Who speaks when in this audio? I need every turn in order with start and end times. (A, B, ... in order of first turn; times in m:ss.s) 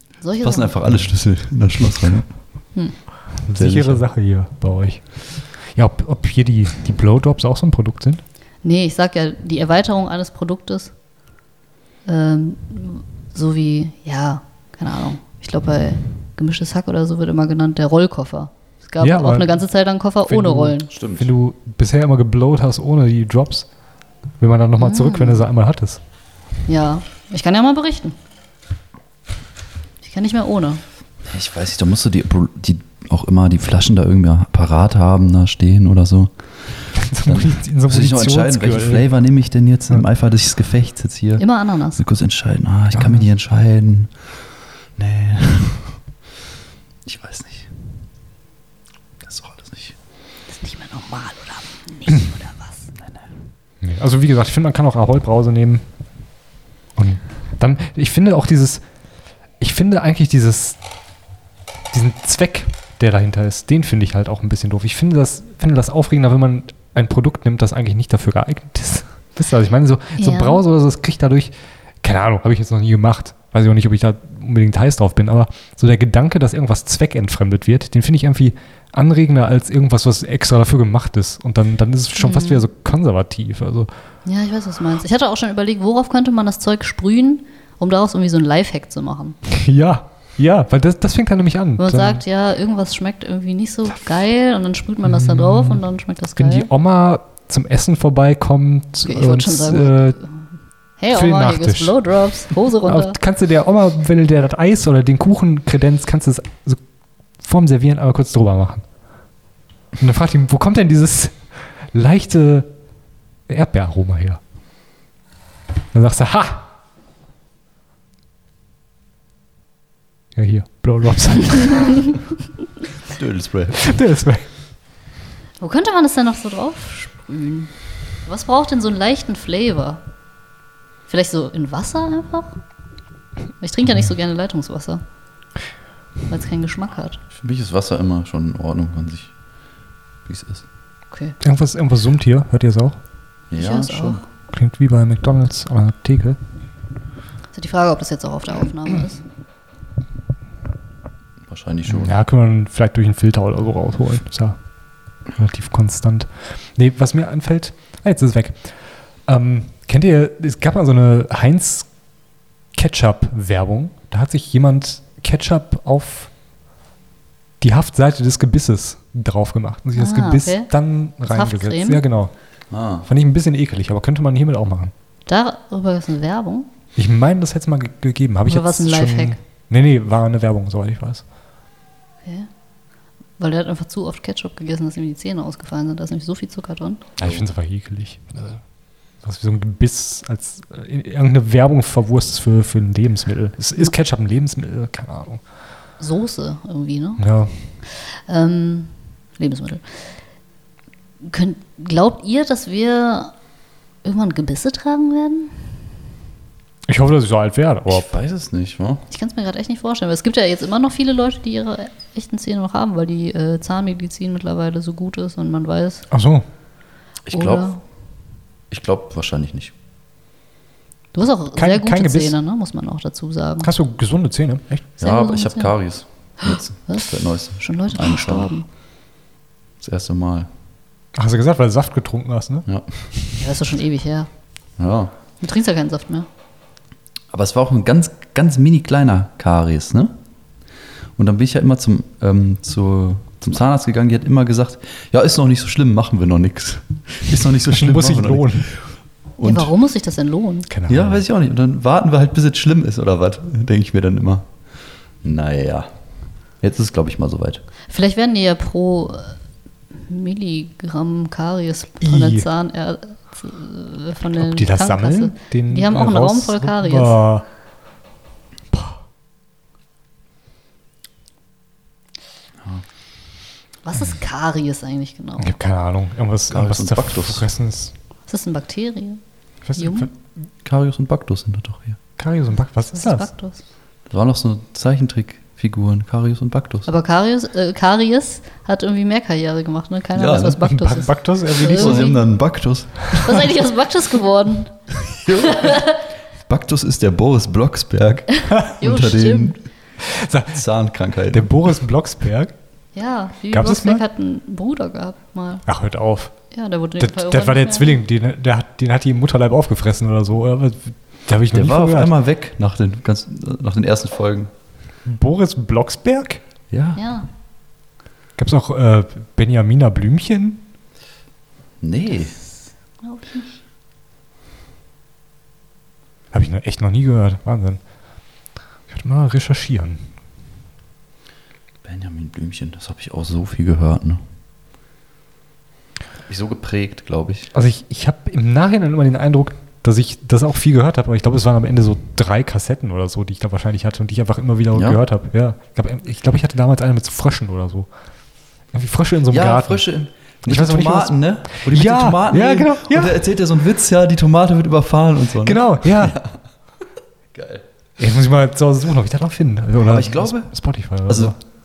0:00.2-0:00.8 A
0:00.4-0:02.3 B
0:03.5-0:05.0 C
0:03.6-0:04.0 B
0:05.7-0:08.2 C
0:08.6-0:10.9 A
0:12.1-0:20.9 A
0:19.0-0:19.6 C
0:20.3-0:23.7 C
0:20.9-0:21.3 B
0:24.4-0:26.0 C
0:24.8-0:25.5 A
0:26.7-0:28.2 A
0:30.0-0:30.8 A
0:31.3-0:36.3 B
0:37.0-0:39.1 C
0:37.2-0:41.4 B
0:41.4-0:42.0 A
0:42.0-0:44.1 B
0:42.9-0:43.3 C
0:45.0-0:46.0 B
0:47.0-0:47.7 B
0:49.2-0:50.0 B
0:50.6-0:52.9 A
0:53.8-0:55.8 C
0:57.0-0:58.8 C
0:59.6-1:00.8 C
1:01.9-1:23.9 C
1:10.2-1:10.6 A
1:22.2-1:22.7 A
1:24.2-1:29.4 A
1:29.5-1:32.2 C
1:31.8-1:36.7 A
1:35.0-1:35.8 C
1:36.4-1:40.2 C
1:39.0-1:40.3 A
1:41.0-1:43.2 A
1:41.1-1:42.0 C
1:42.8-1:46.8 C
1:47.4-1:48.8 C
1:50.0-1:52.7 C
1:53.5-1:54.4 C
1:55.9-1:56.6 C
2:00.4-2:02.0 C
2:03.0-2:03.9 B
2:03.8-2:04.4 C
2:05.6-2:07.7 A
2:08.3-2:10.0 A
2:11.1-2:12.5 A
2:13.6-2:15.0 A
2:16.3-2:17.2 A
2:17.3-2:19.3 B
2:20.3-2:20.6 B
2:21.1-2:21.4 A
2:21.4-2:23.0 C
2:23.5-2:24.2 B
2:23.6-2:24.2 A
2:24.5-2:26.4 C
2:27.5-2:29.2 A
2:31.5-2:32.2 B
2:31.9-2:34.6 C
2:35.3-2:38.8 C
2:39.3-2:41.9 C
2:42.8-2:46.3 C
2:47.6-2:52.3 C
2:50.0-2:50.7 A
2:51.3-2:52.0 A
2:52.7-2:53.1 B
2:53.0-2:54.9 C
2:55.3-2:56.7 A
2:57.0-3:01.2 C
2:58.5-2:59.4 A
3:03.4-3:07.0 A
3:07.2-3:08.6 C
3:07.2-3:07.5 B
3:09.2-3:15.4 C
3:16.0-3:17.3 A
3:17.2-3:17.8 C
3:17.8-3:20.0 A
3:21.2-3:23.3 A
3:24.0-3:25.6 A
3:26.9-3:28.1 C
3:27.9-3:29.0 B
3:29.1-3:36.1 A
3:36.1-3:36.5 C
3:37.3-3:37.7 B
3:37.3-3:37.8 A
3:38.7-3:39.7 B
3:41.1-3:43.7 A
3:41.6-3:42.4 C
3:43.6-3:44.9 C
3:45.0-3:45.7 A
3:45.0-3:48.6 B
3:46.4-3:47.1 A
3:47.6-3:48.7 A
3:49.8-3:50.5 B
3:51.2-3:52.7 C
3:53.4-3:54.3 A
3:54.8-3:55.1 B
3:55.4-3:56.3 A
3:57.3-4:00.1 B
4:01.2-4:08.8 B
4:07.7-4:08.7 C
4:09.4-4:09.7 B
4:09.4-4:10.7 A
4:10.7-4:11.2 C
4:10.9-4:14.5 B
4:15.2-4:15.9 B
4:16.6-4:17.6 B
4:17.9-4:19.4 A
4:20.0-4:27.2 A
4:22.0-4:22.5 C
4:24.3-4:27.5 C
4:33.8-4:35.5 A
4:35.4-4:37.9 C
4:36.5-4:37.5 B
4:38.3-4:39.2 A
4:39.6-4:40.1 C
4:39.8-4:40.1 A
4:40.6-4:42.0 B
4:42.2-4:43.3 C
4:42.9-4:43.6 A
4:44.1-4:46.9 B
4:46.9-4:52.2 A
4:50.2-4:50.6 B
4:50.6-4:52.3 C
4:51.6-4:53.3 B
4:53.1-4:54.7 A
4:55.1-4:55.9 B
4:55.3-4:56.0 A
4:56.5-4:59.6 B
4:58.5-4:59.6 A
5:00.0-5:00.6 C
5:00.5-5:01.6 B
5:01.3-5:02.5 C
5:03.0-5:05.6 A
5:03.5-5:04.0 C
5:05.7-5:06.3 C
5:06.5-5:08.0 A
5:07.0-5:12.1 C
5:11.5-5:14.5 B
5:15.1-5:16.4 C
5:16.7-5:17.0 B
5:17.0-5:17.3 A
5:18.4-5:20.6 C
5:21.8-5:22.4 B
5:23.0-5:23.5 A
5:26.3-5:27.8 C
5:28.9-5:30.0 C
5:31.8-5:34.2 B
5:36.3-5:37.5 B
5:37.5-5:47.9 C
5:44.7-5:45.0 B
5:48.7-5:49.9 C
5:49.3-5:56.4 B
5:50.5-5:53.2 C
5:55.4-5:56.2 C
5:57.3-5:57.6 B
5:58.0-6:01.4 C
5:59.8-6:00.5 B
6:01.1-6:01.4 B